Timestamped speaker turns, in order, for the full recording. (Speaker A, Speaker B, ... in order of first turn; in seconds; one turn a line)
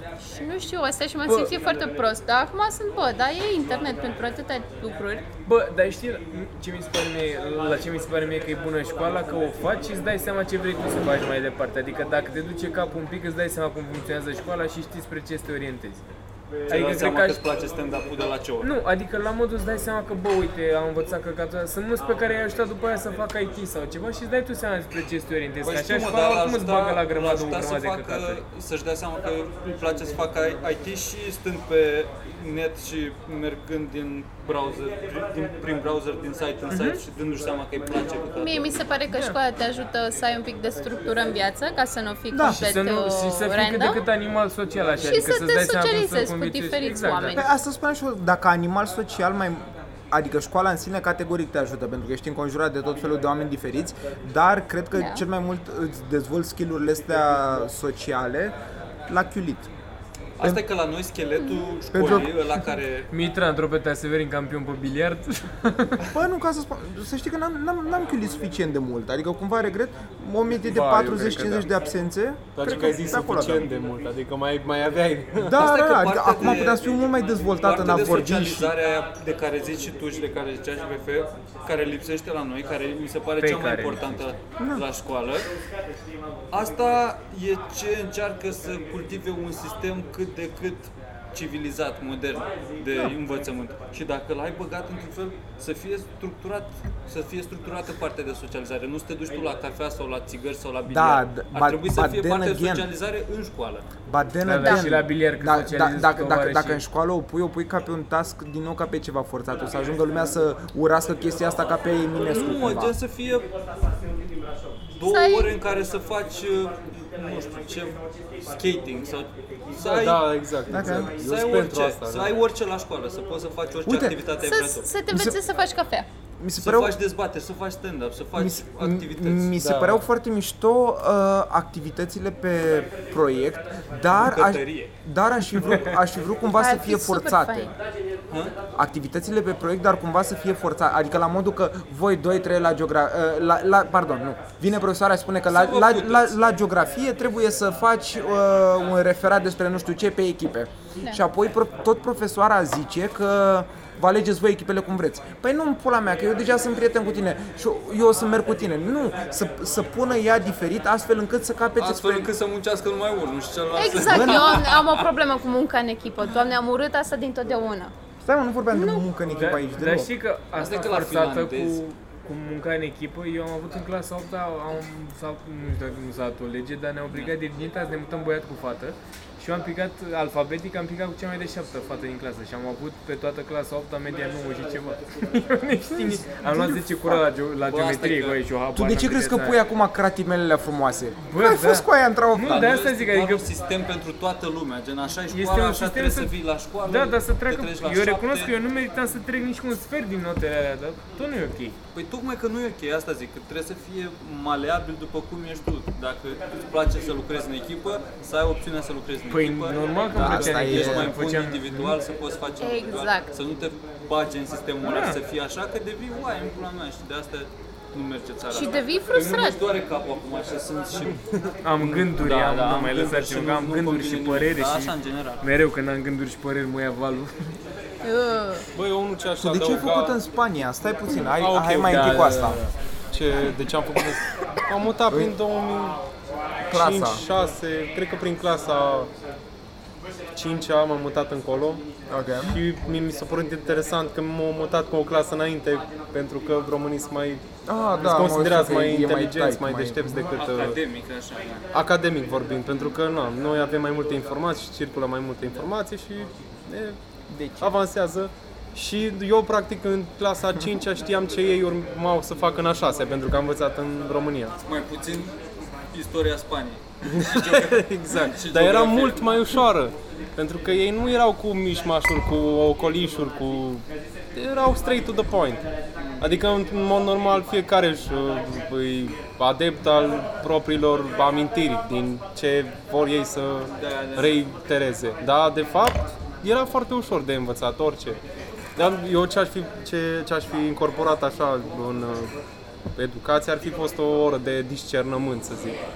Speaker A: 0.2-5.3
Speaker B: 5.4-16.1
Speaker B: 16.7-17.4
Speaker C: 16.7-18.7
Speaker B: 18.6-28.4
Speaker C: 25.6-38.9
Speaker A: 38.4-44.0
Speaker B: 39.1-39.4
Speaker D: 42.3-42.8
Speaker B: 42.4-47.4
Speaker A: 45.0-47.5
Speaker D: 47.3-58.5
Speaker A: 54.9-55.2
Speaker D: 59.1-59.7
Speaker C: 60.4-63.1
Speaker A: 61.4-61.7
Speaker D: 61.9-62.5
Speaker B: 63.1-66.1
Speaker D: 66.1-73.7
Speaker B: 70.7-71.7
Speaker E: 72.5-75.7
Speaker D: 75.4-78.7
Speaker C: 75.6-85.5
Speaker B: 83.4-84.3
Speaker D: 84.6-84.8
Speaker C: 86.5-103.8
Speaker D: 100.9-102.9
Speaker D: 104.1-112.9
Speaker B: 104.4-106.8
Speaker A: 104.6-104.9
Speaker C: 112.2-113.5
Speaker C: 115.0-124.9
Speaker A: 115.1-115.5
Speaker E: 119.8-122.3
Speaker D: 120.7-121.1
Speaker D: 123.8-124.2
Speaker A: 124.4-126.1
Speaker D: 125.1-125.4
Speaker D: 126.4-127.0
Speaker C: 126.6-129.5
Speaker D: 128.3-137.7
Speaker E: 129.6-130.0
Speaker C: 134.2-134.9
Speaker A: 136.6-137.7
Speaker C: 138.3-138.6
Speaker D: 138.7-162.3
Speaker C: 145.5-146.3
Speaker C: 161.8-165.1
Speaker A: 163.8-167.9
Speaker D: 164.0-164.6
Speaker D: 168.2-170.1
Speaker A: 168.7-169.0
Speaker B: 169.3-189.6
Speaker C: 170.6-171.8
Speaker D: 186.0-187.2
Speaker C: 187.7-188.4
Speaker D: 188.7-192.7
Speaker B: 191.2-193.5
Speaker C: 192.4-198.5
Speaker B: 195.3-196.3
Speaker B: 196.8-201.8
Speaker C: 201.9-221.2
Speaker B: 209.3-211.9
Speaker D: 210.1-211.2
Speaker A: 212.6-213.3
Speaker B: 214.8-215.2
Speaker A: 218.5-219.6
Speaker E: 221.1-222.1
Speaker B: 221.6-227.5
Speaker C: 221.9-225.4
Speaker A: 228.0-228.7
Speaker E: 228.7-230.2
Speaker D: 229.4-232.6
Speaker E: 231.2-232.4
Speaker B: 231.8-232.7
Speaker E: 233.1-236.0
Speaker D: 235.1-235.3
Speaker D: 236.7-237.2
Speaker E: 236.7-239.1
Speaker E: 240.3-241.8
Speaker D: 242.1-242.6
Speaker E: 242.4-247.4
Speaker D: 247.7-250.2
Speaker E: 248.0-250.8
Speaker C: 250.3-251.7
Speaker E: 251.7-257.0
Speaker D: 257.3-257.7
Speaker E: 257.6-264.6
Speaker C: 264.6-265.4
Speaker C: 265.9-269.6
Speaker E: 267.0-275.6
Speaker C: 276.0-276.4
Speaker E: 276.2-288.2
Speaker C: 283.8-284.4
Speaker E: 288.8-292.4
Speaker E: 292.9-295.8